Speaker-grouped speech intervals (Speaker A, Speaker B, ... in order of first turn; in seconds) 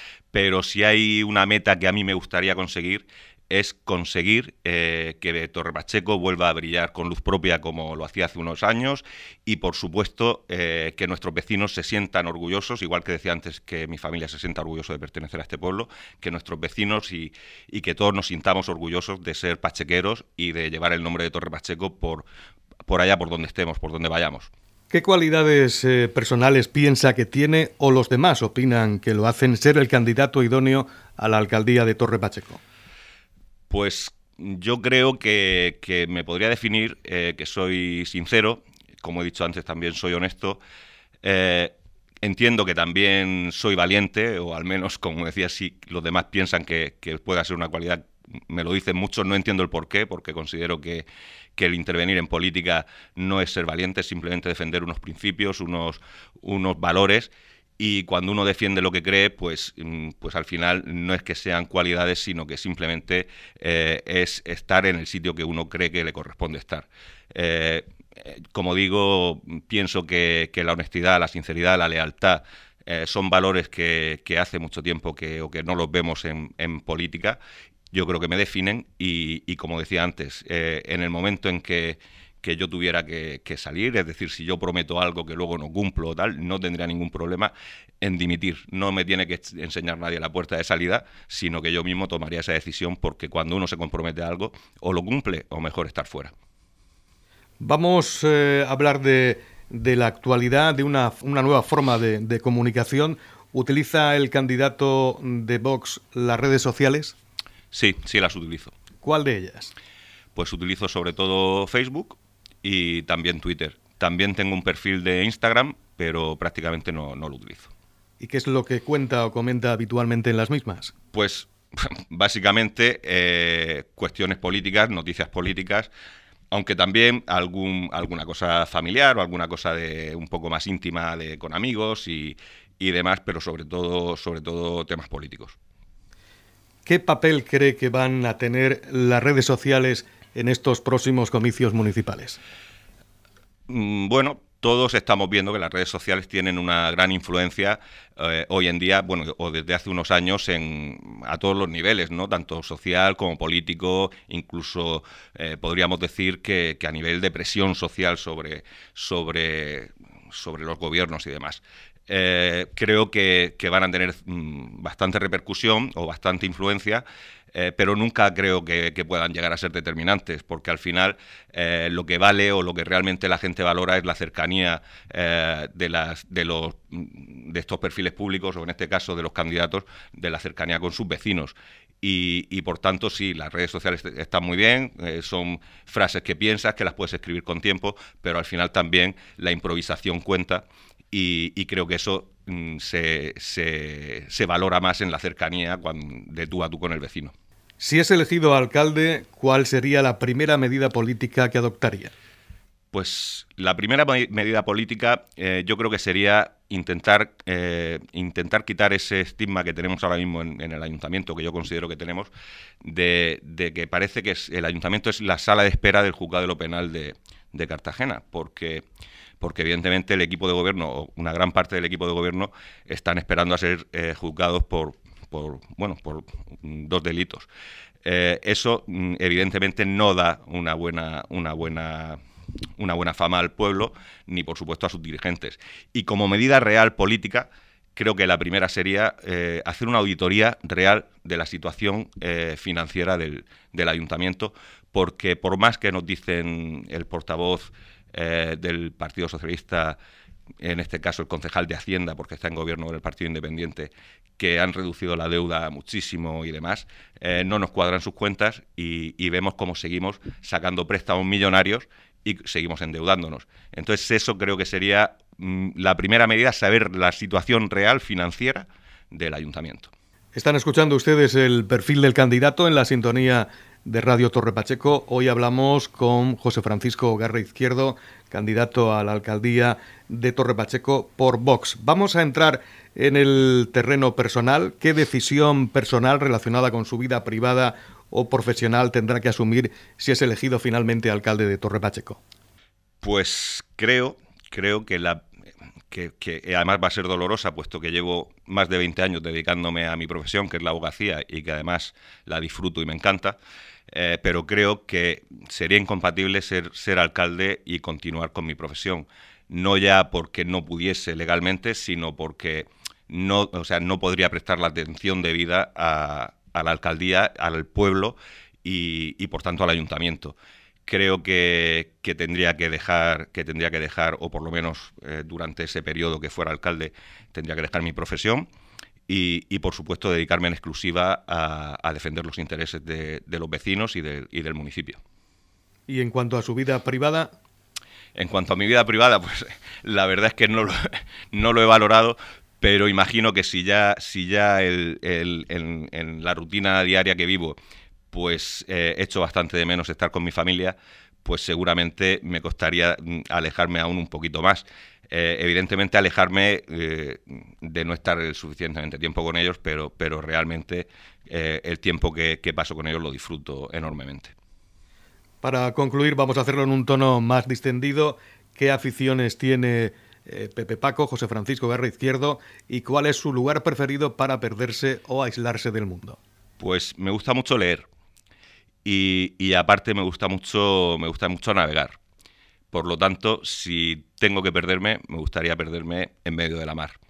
Speaker A: 0.3-22.3, 22.9-24.5, 33.7-40.6, 41.2-51.1, 51.6-77.4, 77.9-96.3, 107.7-108.7, 110.3-117.7, 121.1-125.9, 126.5-135.6, 143.7-197.3, 202.9-212.3, 212.8-218.8, 219.4-227.5, 228.0-232.2, 232.8-250.0, 250.6-269.9, 293.0-295.2, 295.9-303.4, 303.9-320.4, 320.9-328.5, 329.1-335.0, 338.1-347.6, 348.1-364.3, 376.6-377.9, 378.8-382.0, 382.7-387.0
Speaker B: 24.9-32.6, 97.6-107.2, 109.0-109.7, 118.2-120.9, 136.8-142.4, 197.8-202.1, 270.3-292.2, 335.9-337.3, 365.4-376.2